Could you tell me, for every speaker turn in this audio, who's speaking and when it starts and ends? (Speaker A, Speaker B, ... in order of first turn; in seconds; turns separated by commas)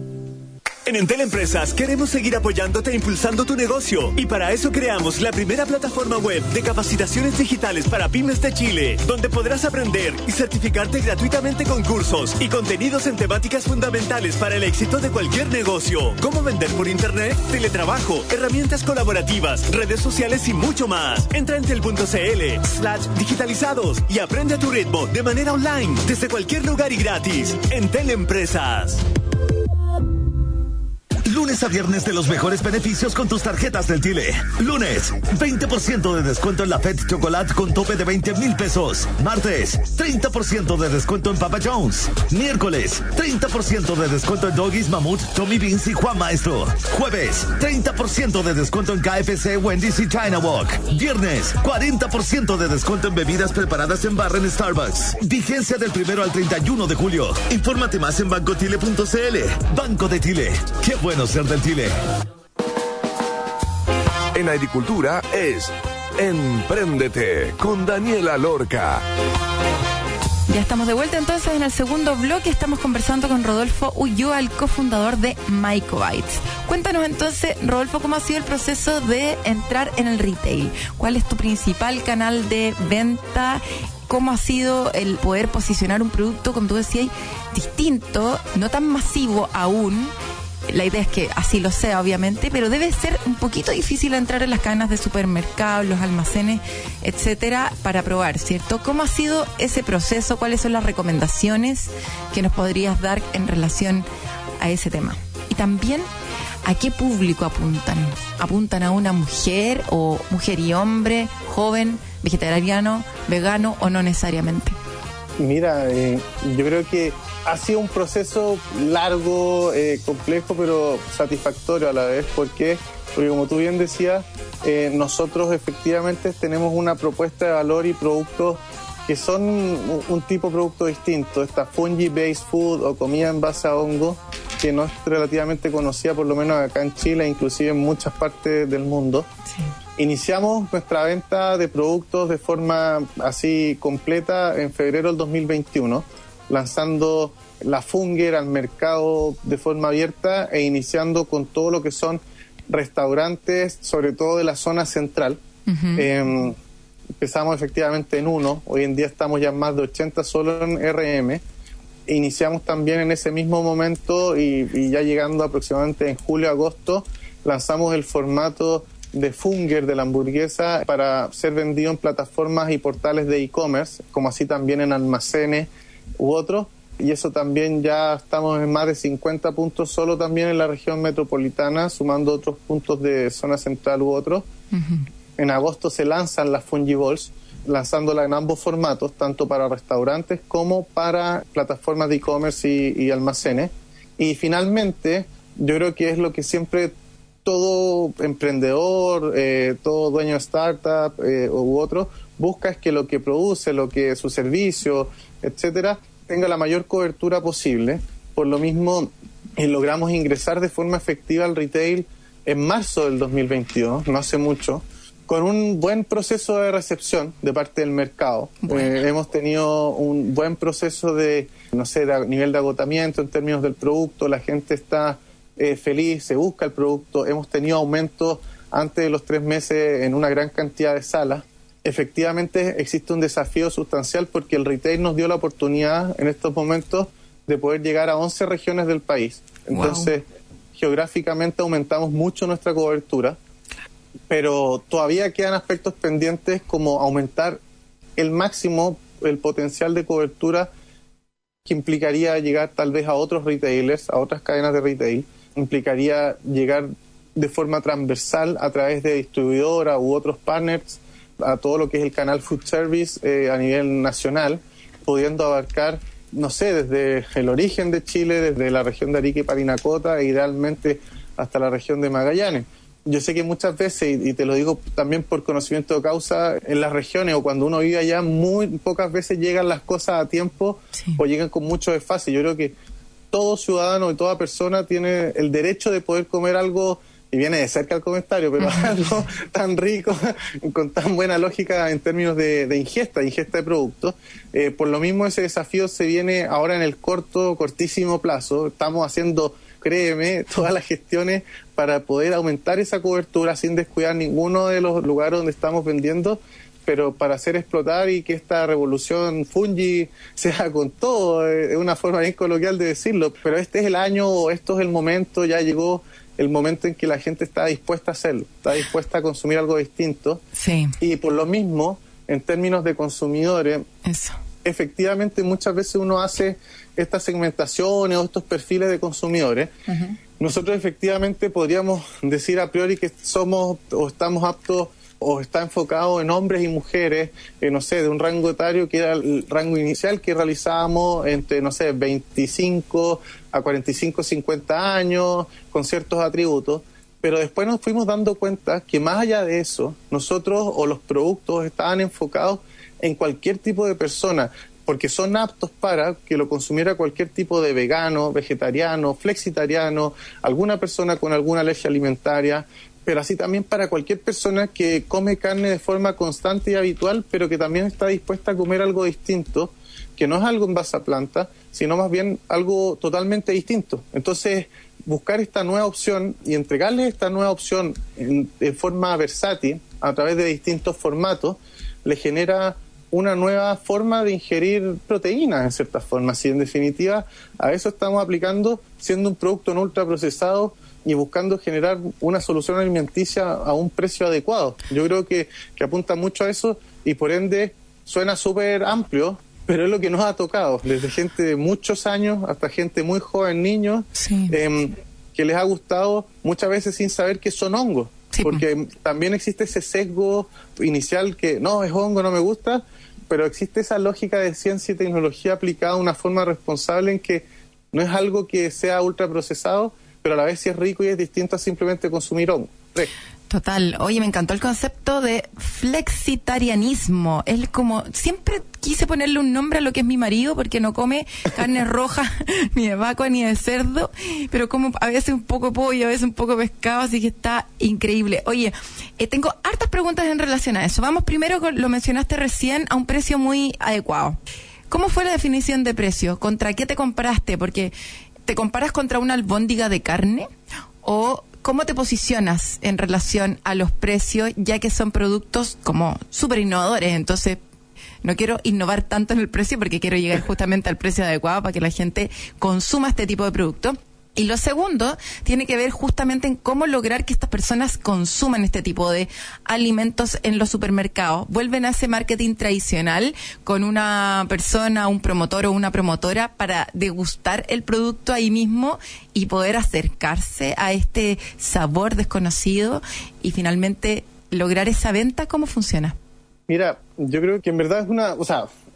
Speaker A: 0.8-29.0, Speaker B: 31.2-61.9, Speaker C: 64.3-69.0, Speaker D: 70.5-90.1, Speaker D: 90.7-104.0, Speaker D: 104.6-106.1, Speaker D: 106.6-114.8, Speaker E: 115.4-139.3, Speaker E: 140.0-155.4, Speaker D: 155.7-156.1, Speaker E: 155.9-156.6, Speaker E: 157.2-161.4, Speaker E: 162.1-184.5, Speaker D: 184.7-185.0, Speaker E: 185.4-196.9, Speaker E: 197.4-243.4, Speaker D: 218.7-218.9, Speaker D: 239.7-240.1, Speaker E: 244.3-247.6, Speaker E: 248.2-250.7, Speaker E: 251.6-282.7, Speaker E: 283.3-320.4, Speaker D: 320.6-320.9, Speaker E: 321.0-323.9, Speaker D: 324.0-324.4, Speaker E: 324.6-329.7, Speaker D: 329.9-330.1, Speaker E: 330.4-423.1, Speaker D: 404.1-404.5, Speaker D: 408.3-408.6, Speaker D: 423.5-444.4, Speaker D: 444.9-447.9, Speaker D: 448.4-450.5, Speaker D: 451.0-457.6, Speaker D: 458.2-486.1, Speaker E: 486.7-488.7